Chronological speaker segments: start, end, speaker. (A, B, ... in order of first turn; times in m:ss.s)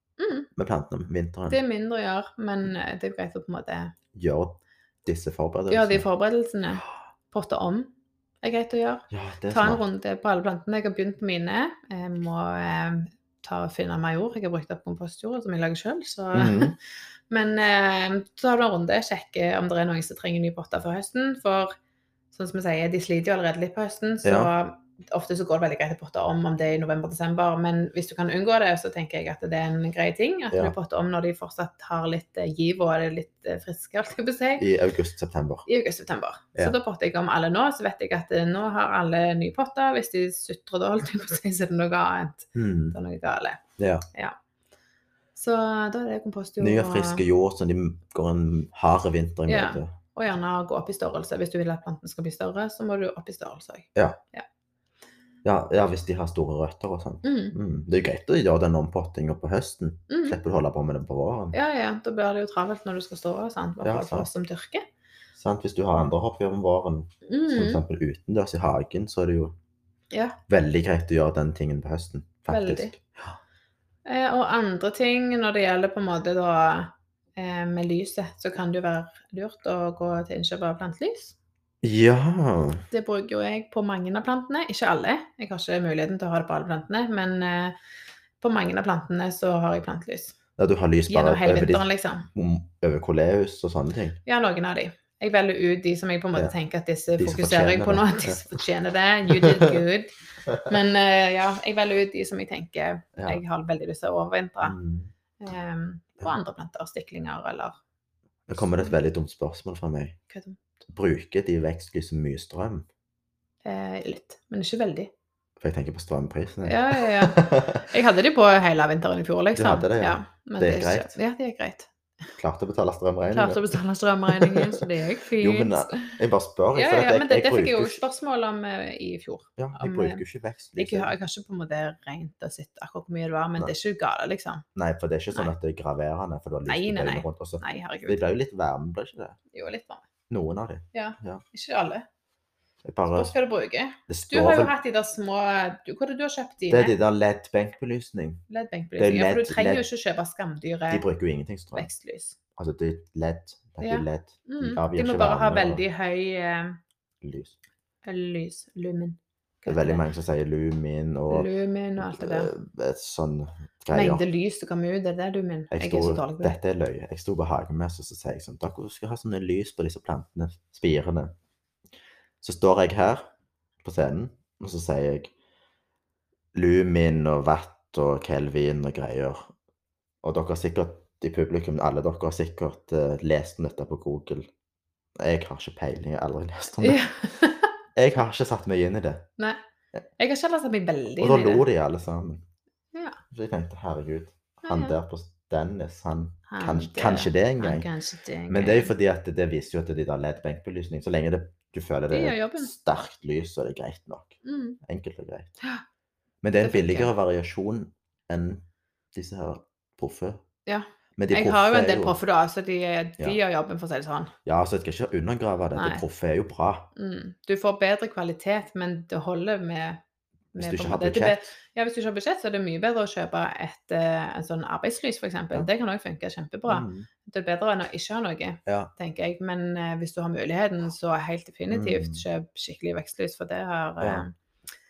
0:00.2-0:00.5 A
0:00.6-0:01.6 B
0:01.5-0:03.9 A
0:04.1-0:06.1 B
0:05.7-0:16.7 A
0:09.1-0:09.8 B
0:16.3-0:16.8 B
0:17.3-0:21.7 A
0:22.3-0:34.7 A
0:24.2-0:24.5 B
0:34.6-0:35.7 B
0:35.7-0:43.6 A
0:42.6-0:43.0 B
0:43.8-0:44.1 B
0:45.3-0:47.2 A
0:46.6-0:49.9 B
0:49.5-0:54.4 A
0:55.4-1:01.6 B
0:57.2-0:57.6 A
1:00.1-1:00.4 A
1:01.5-1:04.8 A
1:03.8-1:04.3 B
1:05.4-1:09.6 B
1:07.2-1:07.8 A
1:10.1-1:10.4 A
1:10.5-1:13.4 B
1:12.5-1:12.9 A
1:14.1-1:21.4 A
1:21.8-1:22.8 B
1:22.9-1:27.7 A
1:28.4-1:30.3 A
1:30.6-1:34.2 B
1:31.1-1:32.3 A
1:34.2-1:40.1 A
1:37.2-1:38.6 B
1:39.2-1:39.8 B
1:40.7-1:44.8 A
1:43.2-1:43.4 B
1:44.6-1:45.1 B
1:45.4-1:47.8 A
1:48.5-1:50.2 B
1:48.6-1:48.9 A
1:50.3-1:50.6 A
1:50.9-1:52.8 B
1:53.6-1:55.1 A
1:55.6-1:57.9 B
1:56.6-2:01.9 A
1:59.6-2:01.1 B
2:02.4-2:04.8 B
2:03.3-2:06.1 A
2:05.4-2:08.0 B
2:06.7-2:10.2 A
2:09.6-2:11.1 B
2:10.8-2:14.6 A
2:14.8-2:19.4 B
2:16.7-2:18.2 A
2:19.5-2:20.1 A
2:20.3-2:21.4 B
2:20.9-2:22.1 A
2:22.8-2:23.3 B
2:23.1-2:26.9 A
2:24.1-2:24.7 B
2:26.7-2:28.4 B
2:28.5-2:31.1 A
2:29.0-2:29.9 B
2:30.9-2:31.9 B
2:31.7-2:32.4 A
2:32.6-2:35.8 B
2:33.8-2:36.8 A
2:37.2-2:37.6 B
2:38.0-2:40.0 A
2:39.7-2:44.2 B
2:41.3-2:42.5 A
2:43.9-2:46.6 A
2:45.7-2:51.3 B
2:52.4-2:53.2 B
2:53.8-2:55.3 B
2:56.5-2:59.5 B
3:00.2-3:04.5 B
3:05.2-3:07.0 B
3:06.8-3:07.7 A
3:08.0-3:09.3 B
3:10.2-3:11.6 A
3:11.2-3:12.4 B
3:12.9-3:13.2 A
3:13.3-3:17.9 B
3:14.6-3:15.0 A
3:16.5-3:18.9 A
3:18.5-3:25.5 B
3:22.1-3:22.7 A
3:24.4-3:24.8 A
3:26.4-3:30.4 B
3:26.6-3:27.1 A
3:30.7-3:34.3 A
3:31.2-3:32.2 B
3:34.4-3:36.9 B
3:35.7-3:36.0 A
3:37.0-3:40.0 A
3:40.5-3:54.3 A
3:40.6-3:41.5 B
3:46.7-3:47.1 B
3:48.7-3:48.9 B
3:51.7-3:52.2 B
3:54.0-3:54.2 B